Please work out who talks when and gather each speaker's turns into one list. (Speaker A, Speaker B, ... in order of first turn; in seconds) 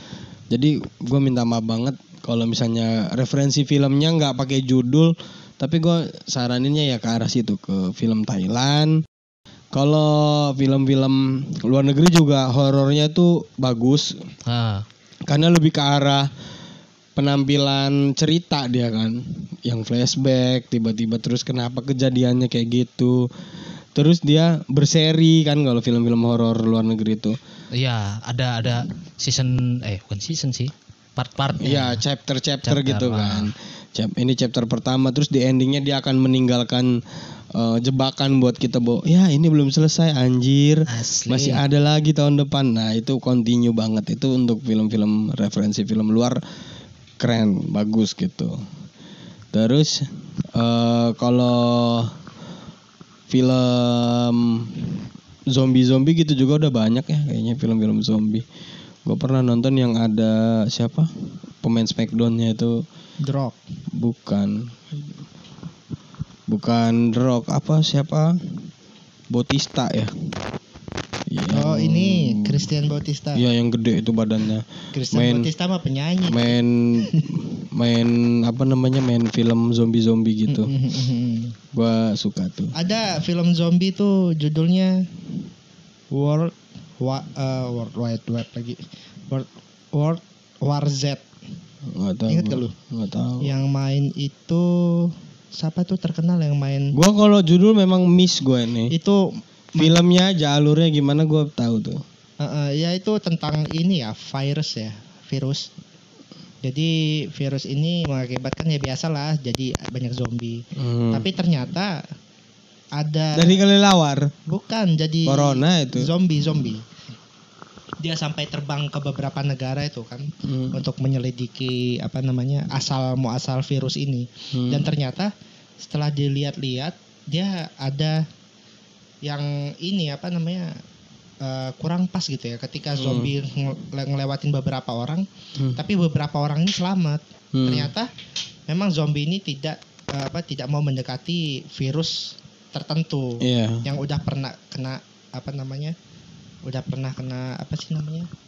Speaker A: 0.5-9.0, 9.7-14.2, 15.3-16.3, 17.1-23.3, 23.9-27.4, 31.6-37.0, 37.5-46.4, 47.2-48.6, 49.5-52.1, 53.3-54.9, 55.5-58.4, 59.0-61.1, 61.6-62.8, 63.9-64.8, 66.5-68.4, 69.3-70.1, 71.3-72.7, 73.3-75.5, 76.3-80.7, 81.7-82.7, 91.8-93.5, 96.9-98.9, 99.8-102.0, 110.8-111.3, 113.3-114.3, 115.2-116.1, 120.4-120.8, 124.5-124.9, 132.9-133.3, 137.5-137.9, 143.4-143.8
Speaker B: 14.4-14.8, 27.7-32.0, 32.6-33.5, 40.9-41.6
Speaker C: 63.2-63.6, 71.5-73.4, 74.9-77.3, 80.5-81.5, 82.7-85.0, 86.1-91.2, 92.3-92.7, 93.4-97.0, 98.9-99.9, 102.4-105.7, 106.6-112.0, 113.0-113.6, 114.5-116.8, 118.0-128.2, 129.2-130.7, 131.4-138.1, 138.7-145.9, 146.6-148.3